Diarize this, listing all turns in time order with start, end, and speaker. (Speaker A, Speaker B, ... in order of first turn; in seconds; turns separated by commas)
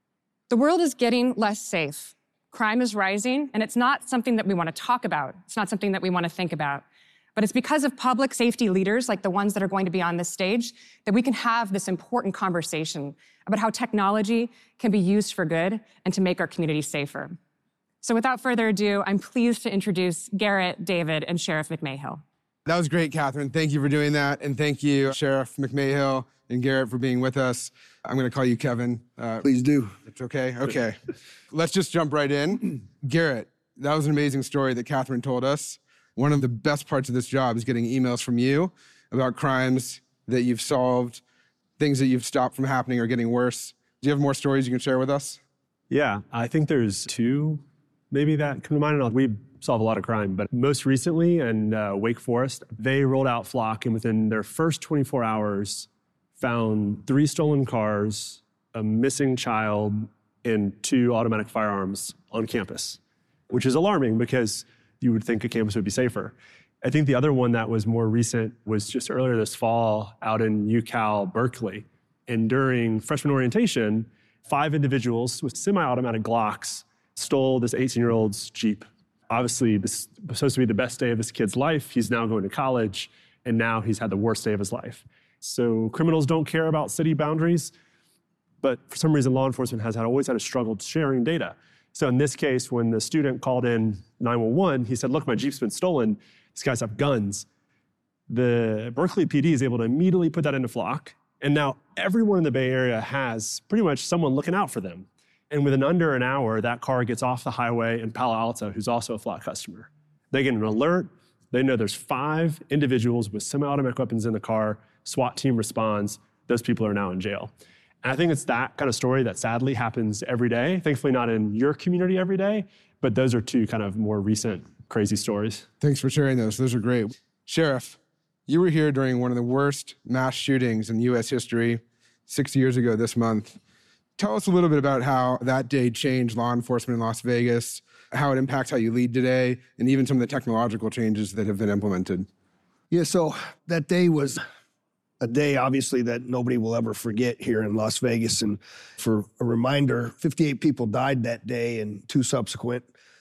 Speaker A: 0.5-6.8, Speaker A: 7.4-17.4, Speaker A: 18.0-22.2, Speaker B: 22.7-29.4, Speaker C: 29.4-29.9, Speaker B: 30.1-31.0, Speaker B: 31.5-41.2, Speaker B: 41.8-45.4, Speaker D: 45.9-55.9, Speaker D: 56.4-63.0, Speaker D: 63.5-87.7, Speaker D: 88.6-97.5, Speaker D: 98.3-117.5, Speaker D: 118.0-125.7, Speaker B: 125.8-133.6, Speaker B: 134.2-142.3, Speaker C: 142.9-144.4, Speaker C: 145.2-152.8